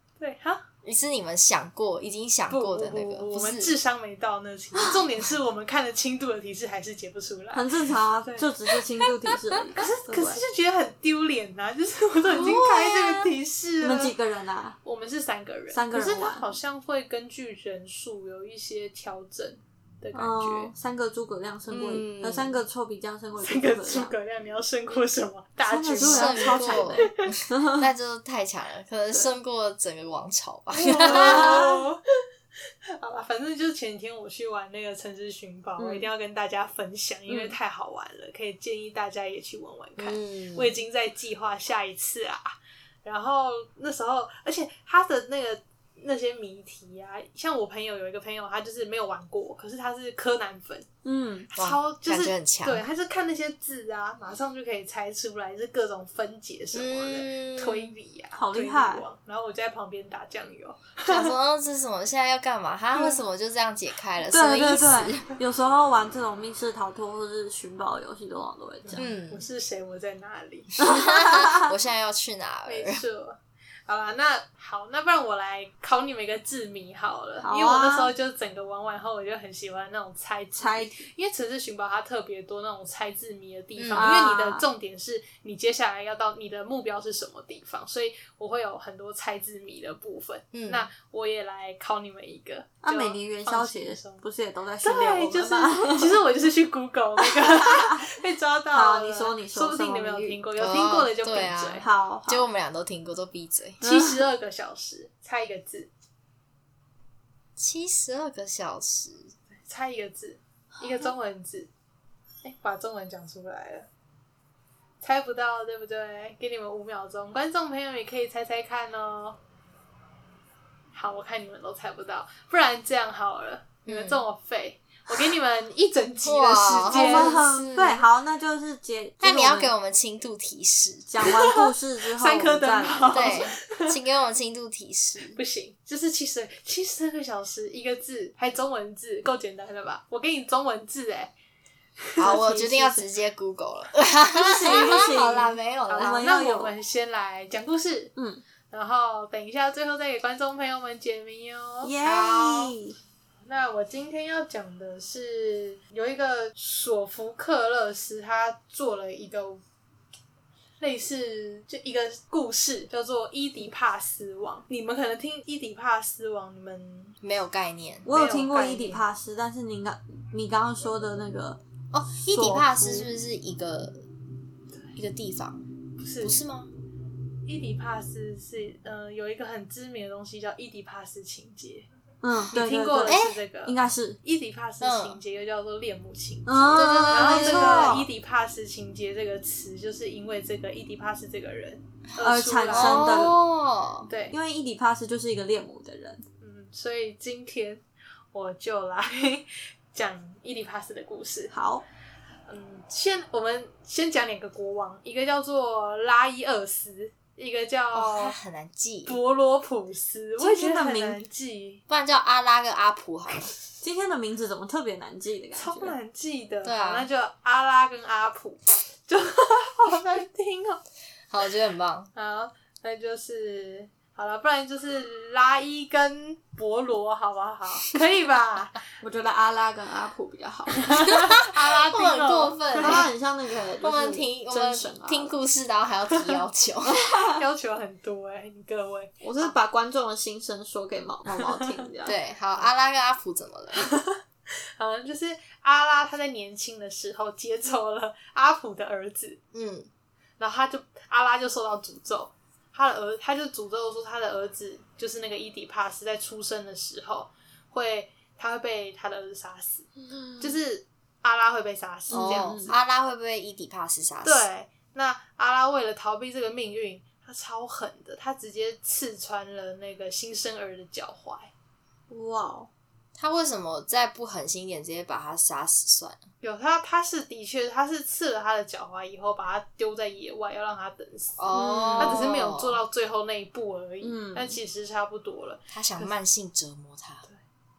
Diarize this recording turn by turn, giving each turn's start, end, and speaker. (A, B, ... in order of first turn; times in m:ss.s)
0:00.2-0:00.6 A
0:00.8-0:03.8 B
0:02.5-0:07.7 A
0:07.5-0:10.4 C
0:08.2-0:08.5 A
0:09.3-0:14.1 A
0:12.3-0:13.3 B
0:13.8-0:14.8 C
0:14.8-0:20.7 A
0:15.7-0:16.5 C
0:20.1-0:24.2 C
0:21.7-0:22.6 B
0:23.4-0:27.3 A
0:25.6-0:27.9 C
0:26.0-0:31.6 B
0:30.7-0:32.0 A
0:30.9-0:31.8 C
0:32.9-0:42.5 A
0:35.8-0:36.1 C
0:37.3-0:37.6 C
0:40.0-0:40.8 C
0:43.0-0:50.9 A
0:51.0-0:51.5 C
0:51.5-1:01.3 A
0:51.6-0:52.9 B
0:56.7-0:57.9 B
0:58.4-0:59.0 C
1:01.1-1:05.3 B
1:04.3-1:09.1 C
1:08.8-1:10.8 A
1:09.0-1:09.5 B
1:10.8-1:13.0 B
1:10.8-1:11.7 C
1:12.7-1:13.4 A
1:13.9-1:34.2 A
1:17.4-1:18.1 C
1:20.6-1:21.1 C
1:23.8-1:24.1 B
1:24.0-1:24.7 C
1:30.5-1:30.9 B
1:32.8-1:36.2 C
1:34.8-1:41.8 A
1:37.7-1:38.0 C
1:38.7-1:40.4 C
1:40.6-1:43.8 B
1:41.8-1:42.5 C
1:43.8-1:44.3 C
1:43.8-1:45.9 A
1:47.6-1:49.4 B
1:49.6-1:51.7 A
1:52.4-1:53.9 A
1:55.0-1:59.4 A
2:00.9-2:07.4 A
2:03.9-2:04.2 B
2:06.2-2:08.1 B
2:06.8-2:09.7 C
2:09.2-2:11.1 B
2:11.1-2:13.5 C
2:11.2-2:14.0 A
2:13.1-2:15.4 B
2:15.3-2:21.3 A
2:22.1-2:23.0 A
2:22.2-2:26.3 B
2:22.2-2:23.0 C
2:24.3-2:25.3 A
2:24.6-2:26.7 C
2:25.9-2:28.1 A
2:28.2-2:28.4 C
2:28.7-2:32.0 A
2:31.8-2:33.0 C
2:32.0-2:32.7 B
2:33.5-2:39.6 A
2:40.8-2:47.2 A
2:47.2-2:48.1 B
2:48.0-2:51.6 C
2:48.1-2:49.0 A
2:51.9-2:54.0 B
2:52.3-2:53.1 C
2:55.0-2:55.6 B
2:56.0-2:56.4 A
2:56.2-2:56.7 B
2:57.4-3:01.9 A
3:02.2-3:04.2 C
3:02.5-3:13.4 A
3:03.1-3:03.4 B
3:04.8-3:05.2 B
3:06.5-3:08.1 C
3:06.7-3:08.0 B
3:12.2-3:13.4 C
3:12.7-3:14.1 B
3:14.1-3:14.3 A
3:14.3-3:16.2 C
3:16.4-3:21.5 A
3:21.5-3:21.8 C
3:22.5-3:28.4 A
3:27.9-3:29.2 B
3:29.1-3:31.8 A
3:30.4-3:31.2 C
3:31.9-3:33.5 B
3:33.8-3:36.0 C
3:35.6-3:40.8 A
3:36.6-3:37.1 B
3:41.3-3:42.1 B
3:42.1-3:48.8 A
3:49.0-3:51.2 C
3:51.0-3:53.1 A
3:51.8-3:53.1 B
3:52.8-3:55.3 C
3:53.8-3:57.0 B
3:56.9-3:57.4 C
3:57.3-3:59.5 A
3:59.2-4:02.2 C
4:01.4-4:01.7 A
4:02.0-4:03.9 B
4:03.8-4:04.2 A
4:04.8-4:09.4 A
4:09.5-4:09.9 B
4:10.4-4:19.9 A
4:20.0-4:20.6 C
4:20.4-4:22.7 A
4:22.1-4:22.8 C
4:22.1-4:24.5 B
4:24.2-4:31.5 A
4:32.1-4:32.7 C
4:33.2-4:36.2 B
4:36.4-4:46.1 A
4:41.4-4:42.8 B
4:41.5-4:42.3 C
4:44.0-4:44.6 C
4:45.7-4:47.3 B